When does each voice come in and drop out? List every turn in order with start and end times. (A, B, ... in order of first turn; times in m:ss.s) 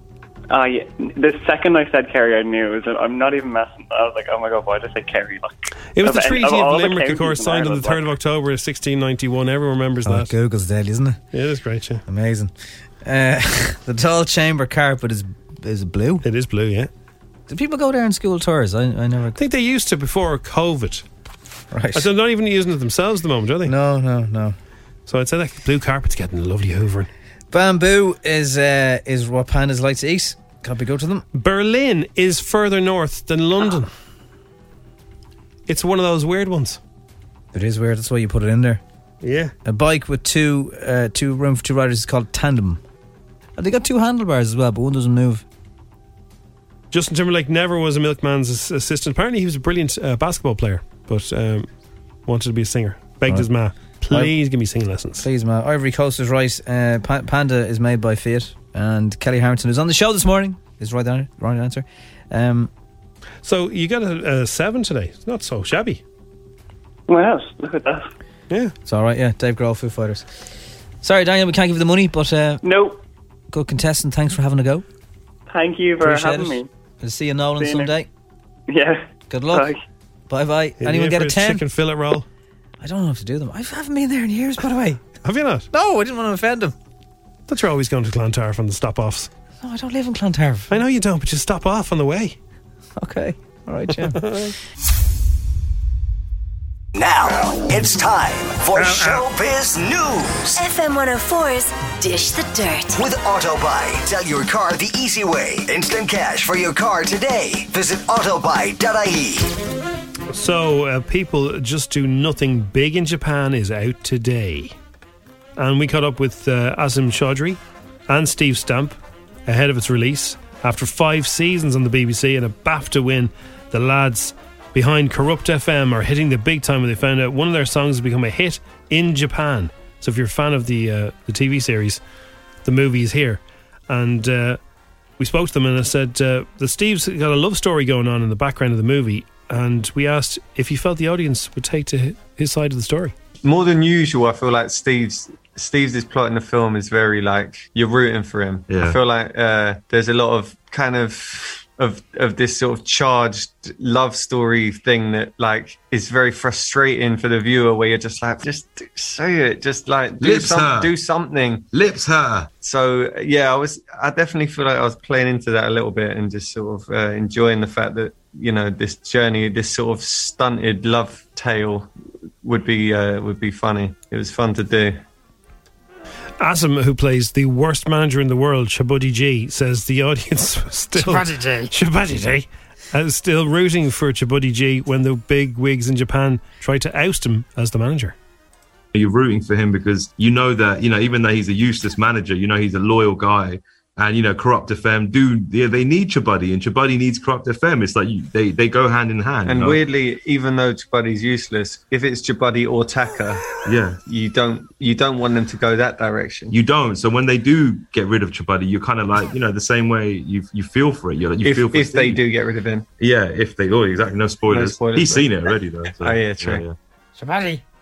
0:00.5-0:05.5 A
0:06.0-0:10.3 B
0:06.0-0:08.1 A
0:10.0-0:11.2 C
0:11.3-0:12.0 B
0:12.1-0:12.5 C
0:13.0-0:16.2 C
0:16.2-0:16.9 B
0:17.5-0:19.4 C
0:19.4-0:21.0 B
0:21.7-0:22.1 C
0:21.9-0:23.7 B
0:23.6-0:24.6 C
0:25.1-0:27.1 B
0:27.5-0:31.2 C
0:31.3-0:33.9 B
0:35.7-0:36.8 B
0:37.5-0:38.8 C
0:39.2-0:39.5 B
0:39.6-0:42.8 C
0:43.6-0:45.4 C
0:46.9-0:51.7 B
0:52.3-0:55.3 B
0:54.1-0:54.4 C
0:55.2-1:02.7 C
1:03.4-1:06.0 B
1:07.1-1:08.1 A
1:08.9-1:10.3 C
1:11.0-1:12.6 C
1:12.6-1:13.0 A
1:13.5-1:14.8 C
1:15.5-1:16.7 A
1:16.0-1:18.1 C
1:17.6-1:17.9 A
1:18.7-1:19.8 A
1:19.3-1:19.7 C
1:20.3-1:21.6 C
1:20.8-1:22.3 B
1:22.8-1:25.0 C
1:25.2-1:25.7 B
1:25.7-1:26.8 C
1:27.5-1:29.3 B
1:29.6-1:30.8 C
1:30.7-1:32.4 B
1:33.0-1:34.2 C
1:34.0-1:34.5 B
1:37.0-1:40.6 D
1:38.7-1:39.3 B
1:40.6-1:43.0 E
1:42.9-1:49.5 D
1:50.3-1:54.8 B
1:55.6-2:12.0 B
2:12.6-2:14.6 B
2:15.2-2:23.1 B
2:23.4-2:41.7 F
2:28.7-2:29.0 G
2:40.2-2:40.9 G
2:41.7-2:42.5 G
2:42.6-2:51.9 F
2:52.4-2:55.0 F
2:56.4-3:08.1 B
3:01.0-3:01.7 C
3:08.9-3:19.8 G
3:19.5-3:23.5 F
3:23.6-3:24.0 G
3:24.1-3:26.6 F
3:26.5-3:32.2 G
3:31.4-3:32.9 F
3:33.0-3:36.8 G
3:34.5-3:36.7 F
3:37.2-3:37.6 C